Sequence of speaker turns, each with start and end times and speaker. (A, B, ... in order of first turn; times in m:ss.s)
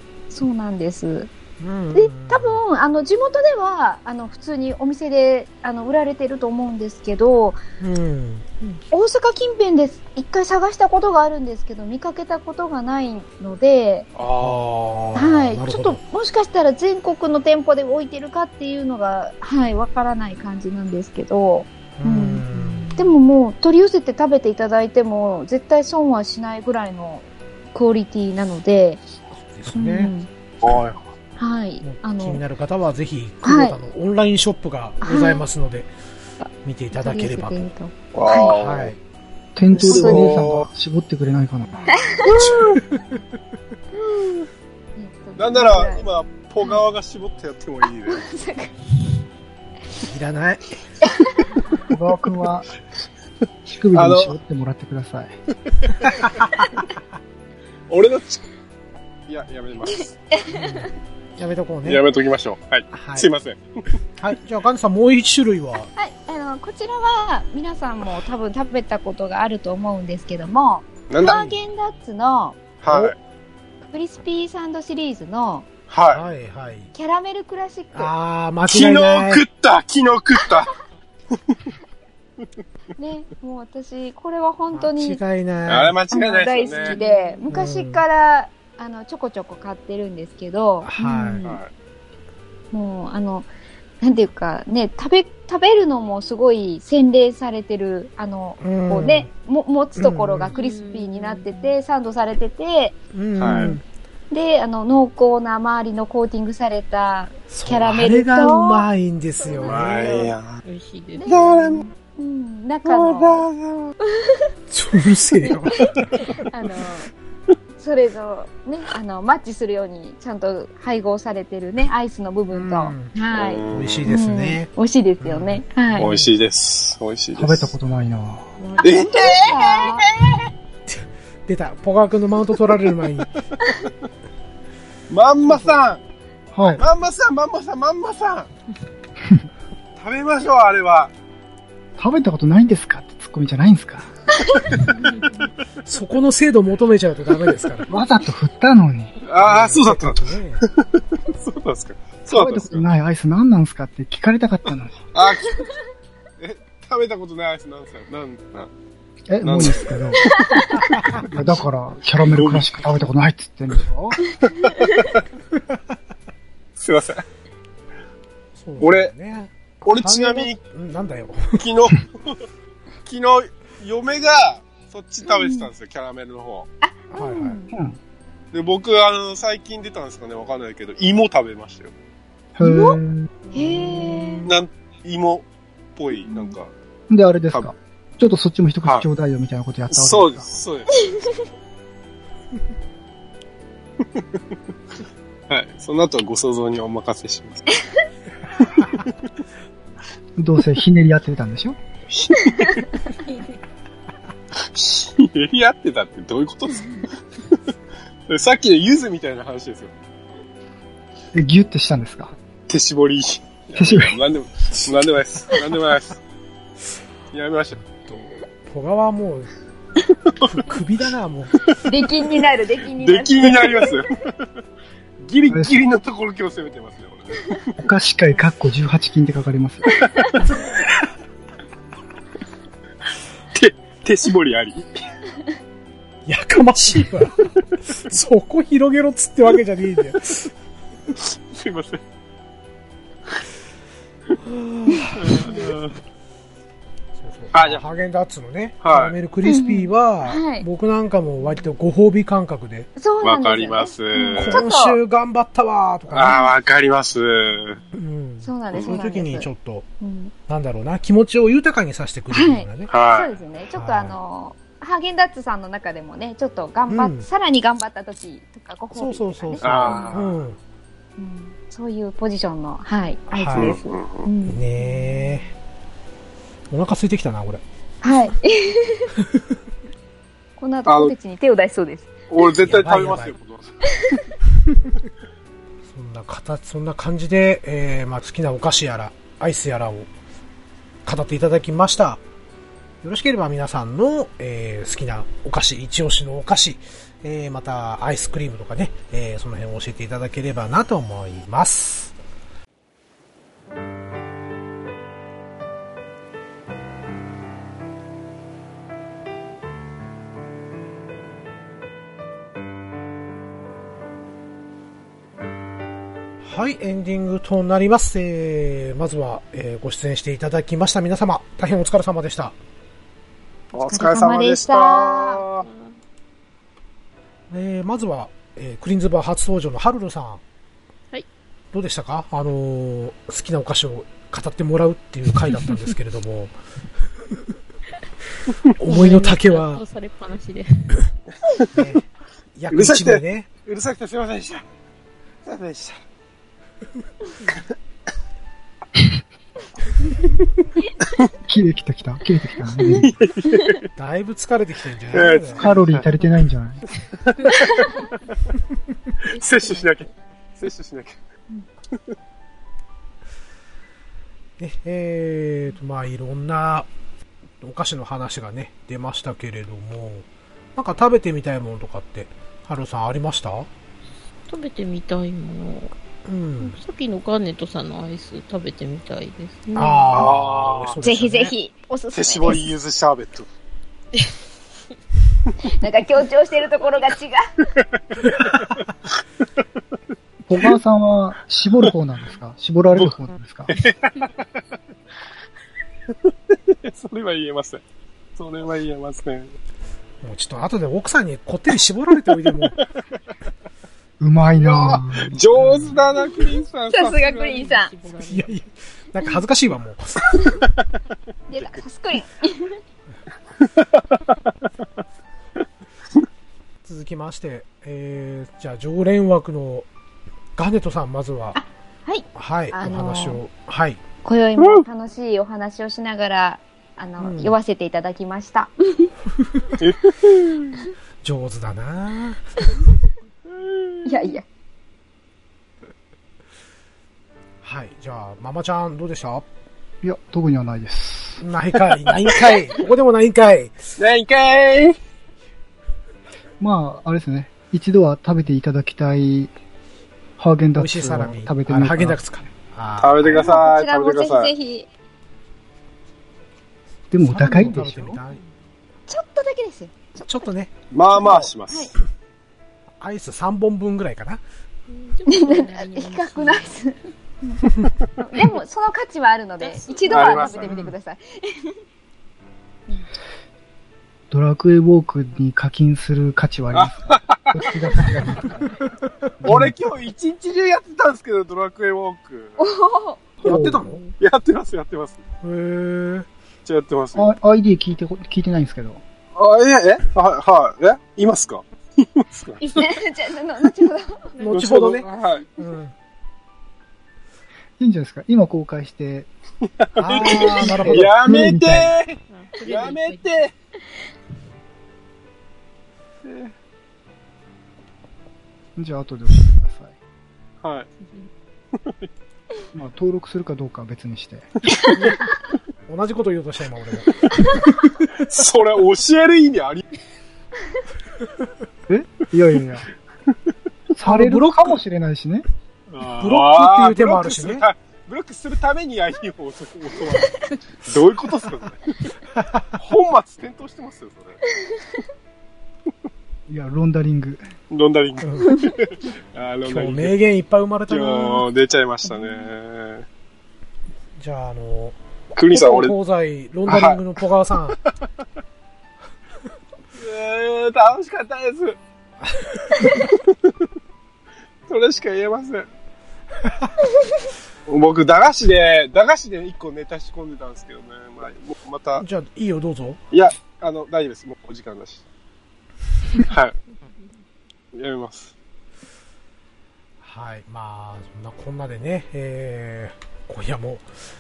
0:00.3-0:01.3 A
0:01.6-0:02.6 B
0:01.9-0:07.6 A
0:07.8-0:08.8 B
0:08.9-0:14.1 A
0:14.2-0:14.7 C
0:14.4-0:16.0 B
0:15.2-0:29.0 A
0:22.0-0:23.0 B
0:29.3-0:30.1 B
0:29.7-0:30.3 A
0:30.6-0:31.1 C
0:31.4-0:32.4 A
0:31.8-0:35.9 B
0:33.4-0:33.8 A
0:35.0-0:35.4 A
0:36.4-0:38.6 A
0:36.6-0:37.7 B
0:38.1-0:39.0 C
0:38.5-0:39.0 B
0:39.6-0:41.9 D
0:39.8-0:40.7 C
0:39.9-0:40.3 A
0:41.9-0:42.4 A
0:42.2-0:42.8 C
0:42.3-0:43.2 B
0:45.0-0:46.1 A
0:45.4-0:48.3 C
0:48.1-0:48.8 A
0:50.1-0:50.8 B
0:51.9-0:52.7 D
0:53.7-0:55.3 D
0:53.9-0:54.4 C
0:56.1-0:56.5 B
0:57.9-0:58.4 C
0:59.3-1:00.2 C
1:00.4-1:00.8 A
1:00.5-1:02.0 B
1:01.8-1:03.6 C
1:02.9-1:03.3 B
1:04.2-1:05.9 B
1:06.0-1:12.7 A
1:11.1-1:11.5 C
1:12.8-1:13.2 C
1:12.9-1:13.2 B
1:13.9-1:15.7 A
1:15.9-1:16.2 C
1:16.1-1:16.9 B
1:16.9-1:18.1 A
1:17.9-1:19.4 B
1:18.7-1:20.7 C
1:23.0-1:25.2 A
1:24.7-1:26.0 B
1:25.7-1:27.0 C
1:26.1-1:31.6 A
1:26.6-1:27.5 E
1:27.5-1:28.0 B
1:30.8-1:31.5 B
1:31.4-1:31.7 C
1:32.7-1:33.5 A
1:34.0-1:43.0 A
1:38.6-1:39.3 B
1:40.0-1:40.5 B
1:40.5-1:41.8 E
1:43.1-1:43.8 B
1:43.4-1:43.8 C
1:43.5-1:43.8 A
1:44.3-1:48.9 A
1:47.5-1:50.3 B
1:49.5-1:50.3 A
1:49.6-1:50.6 C
1:50.6-1:51.3 E
1:51.2-1:53.5 A
1:51.2-1:51.9 C
1:52.8-1:54.0 C
1:54.1-1:54.4 A
1:54.7-1:56.3 B
1:56.2-1:57.1 A
1:57.8-2:06.1 A
2:02.5-2:03.1 B
2:03.3-2:04.1 C
2:03.7-2:04.7 B
2:05.2-2:06.3 B
2:06.0-2:07.7 C
2:07.4-2:08.5 D
2:08.6-2:09.1 E
2:08.8-2:10.3 A
2:08.8-2:10.4 C
2:10.9-2:13.3 B
2:15.1-2:16.0 C
2:15.5-2:15.7 B
2:16.5-2:16.8 D
2:16.8-2:18.5 C
2:20.0-2:21.1 C
2:22.0-2:24.1 D
2:25.9-2:27.9 B
2:27.9-2:29.2 D
2:29.2-2:32.8 C
2:29.4-2:30.6 B
2:32.3-2:35.0 D
2:35.1-2:35.7 C
2:36.4-2:38.7 C
2:39.3-2:40.3 D
2:39.4-2:41.3 C
2:40.4-2:40.8 A
2:40.8-2:41.3 B
2:41.2-2:44.2 D
2:42.3-2:43.0 C
2:44.7-2:45.1 A
2:46.8-2:47.2 C
2:48.6-2:51.7 B
2:48.8-2:49.1 C
2:49.8-2:50.6 C
2:51.6-2:52.4 C
2:53.0-2:56.7 C
2:55.2-2:55.7 A
2:56.8-2:57.7 A
2:57.1-2:57.6 B
2:57.7-2:58.0 D
2:58.5-3:01.9 C
3:02.6-3:03.3 D
3:02.6-3:03.0 A
3:03.5-3:04.6 B
3:03.5-3:04.4 A
3:04.4-3:06.7 C
3:07.1-3:10.5 D
3:09.9-3:11.1 C
3:14.0-3:14.4 C
3:15.5-3:17.7 C
3:18.6-3:19.1 C
3:18.8-3:19.0 B
3:20.4-3:21.8 D
3:22.1-3:22.8 C
3:24.6-3:27.6 C
3:28.3-3:30.0 C
3:31.3-3:32.3 D
3:32.7-3:36.2 C
3:33.8-3:34.2 D
3:37.3-3:38.1 C
3:38.0-3:39.5 B
3:40.4-3:41.7 B
3:41.9-3:44.0 A
3:43.0-3:44.5 C
3:45.2-3:47.8 C
3:45.5-3:45.8 D
3:47.8-3:49.9 D
3:50.0-3:50.3 C
3:53.5-3:55.0 C
3:56.3-4:00.5 B
4:01.2-4:02.0 C
4:04.4-4:05.7 B
4:05.2-4:06.0 C
4:07.2-4:12.9 B
4:07.5-4:07.8 C
4:08.8-4:09.2 C
4:09.4-4:10.7 A
4:13.0-4:15.0 A
4:13.2-4:14.7 C
4:14.4-4:16.4 B
4:16.1-4:17.8 C
4:17.9-4:19.9 B
4:18.4-4:19.5 A
4:18.7-4:19.0 C
4:20.0-4:20.3 A
4:20.5-4:22.9 B
4:22.3-4:30.2 A
4:22.9-4:23.3 C
4:23.7-4:24.2 B
4:26.9-4:27.3 B
4:28.9-4:30.6 B
4:29.6-4:30.4 C
4:31.2-4:35.3 A
4:33.3-4:33.8 B
4:33.6-4:34.3 C
4:34.4-4:35.5 B
4:36.7-4:37.6 B
4:38.0-4:39.1 A
4:40.6-4:42.2 A
4:40.9-4:41.2 C
4:42.3-4:43.8 C
4:42.6-4:43.4 B
4:45.9-4:50.1 B
4:51.0-4:52.2 B
4:53.0-5:02.2 B
5:16.4-5:22.6 B
5:23.7-5:25.7 C
5:23.8-5:25.4 A
5:25.6-5:26.0 E
5:27.5-5:30.4 B
5:31.7-5:36.6 B
5:38.8-5:39.8 B
5:38.8-5:41.0 E
5:41.7-5:42.0 B
5:42.6-5:43.5 B
5:42.7-5:44.7 C
5:45.4-5:46.0 C
5:51.5-5:53.1 D
5:52.8-5:53.8 C
5:54.0-5:55.7 B
5:55.1-5:56.3 C
5:55.6-5:56.8 D
5:57.3-5:57.5 C
5:59.3-6:01.2 C
6:04.6-6:06.9 B
6:07.6-6:13.7 B
6:14.5-6:15.9 E
6:16.3-6:16.8 B
6:16.6-6:20.2 E
6:19.8-6:21.5 B
6:20.1-6:21.0 C
6:21.0-6:22.7 A
6:22.1-6:23.5 C
6:25.7-6:27.5 A
6:28.2-6:28.9 B
6:30.5-6:33.7 D
6:33.7-6:34.6 C
6:36.1-6:37.8 C
6:38.4-6:39.5 C
6:40.2-6:42.8 B
6:44.2-6:45.4 D
6:44.6-6:47.2 C
6:45.6-6:46.0 B
6:46.9-6:47.9 A
6:47.1-6:48.6 E
6:48.2-6:50.6 B
6:51.5-6:52.8 A
6:53.6-6:54.4 C
6:56.8-6:59.9 B
7:00.6-7:01.6 B
7:01.6-7:03.4 A
7:02.4-7:04.0 B
7:04.2-7:09.1 A
7:04.6-7:04.9 C
7:07.2-7:07.6 B
7:09.8-7:10.8 C
7:11.2-7:12.6 B
7:13.5-7:14.1 C
7:14.0-7:14.4 A
7:17.6-7:19.5 B
7:20.0-7:21.4 D
7:21.4-7:23.8 B
7:24.0-7:25.0 C
7:26.6-7:29.5 D
7:30.4-7:32.2 D
7:30.8-7:33.6 B
7:33.0-7:34.5 C
7:33.3-7:34.9 A
7:37.1-7:38.2 D
7:37.2-7:38.4 B
7:39.1-7:40.2 A
7:40.2-7:41.5 B
7:40.9-7:41.9 C
7:43.0-7:44.4 B
7:44.9-7:46.8 E
7:45.3-7:47.6 A
7:48.2-7:51.8 A
7:49.6-7:50.8 E
7:50.1-7:50.7 C
7:54.3-7:58.6 D
7:56.7-7:57.7 C
7:59.4-7:59.7 D
7:59.4-8:02.6 C
8:02.6-8:03.2 A
8:03.4-8:04.0 D
8:03.4-8:04.0 B
8:03.8-8:04.1 E
8:04.2-8:05.2 C
8:05.4-8:06.3 B
8:06.6-8:07.3 C
8:07.2-8:09.0 D
8:09.4-8:12.9 C
8:12.6-8:14.4 A
8:14.4-8:15.9 B
8:14.5-8:15.5 C
8:17.8-8:19.3 D
8:19.6-8:23.5 C
8:20.0-8:21.5 B
8:20.1-8:21.9 D
8:22.3-8:23.3 E
8:26.2-8:26.5 C
8:28.8-8:30.0 D
8:30.6-8:30.9 C
8:31.8-8:32.1 C
8:32.7-8:34.5 D
8:35.9-8:38.2 B
8:38.1-8:39.8 C
8:41.9-8:42.9 D
8:44.0-8:45.4 D
8:44.0-8:44.8 B
8:45.9-8:51.8 C
8:46.2-8:47.7 B
8:52.4-8:52.7 B
8:52.8-8:54.4 C
8:56.5-8:57.4 D
8:57.7-9:00.2 C
8:58.2-8:58.6 B
8:59.6-9:01.5 B
9:00.9-9:03.1 C
9:04.2-9:05.0 B
9:05.4-9:06.0 C
9:05.5-9:07.8 B
9:06.7-9:07.0 C
9:10.0-9:11.8 C
9:12.3-9:12.9 B
9:12.8-9:13.5 C
9:14.7-9:15.7 C
9:17.7-9:22.0 C
9:22.0-9:23.0 B
9:23.1-9:25.0 C
9:26.2-9:26.6 C
9:27.7-9:28.3 C
9:30.0-9:33.9 B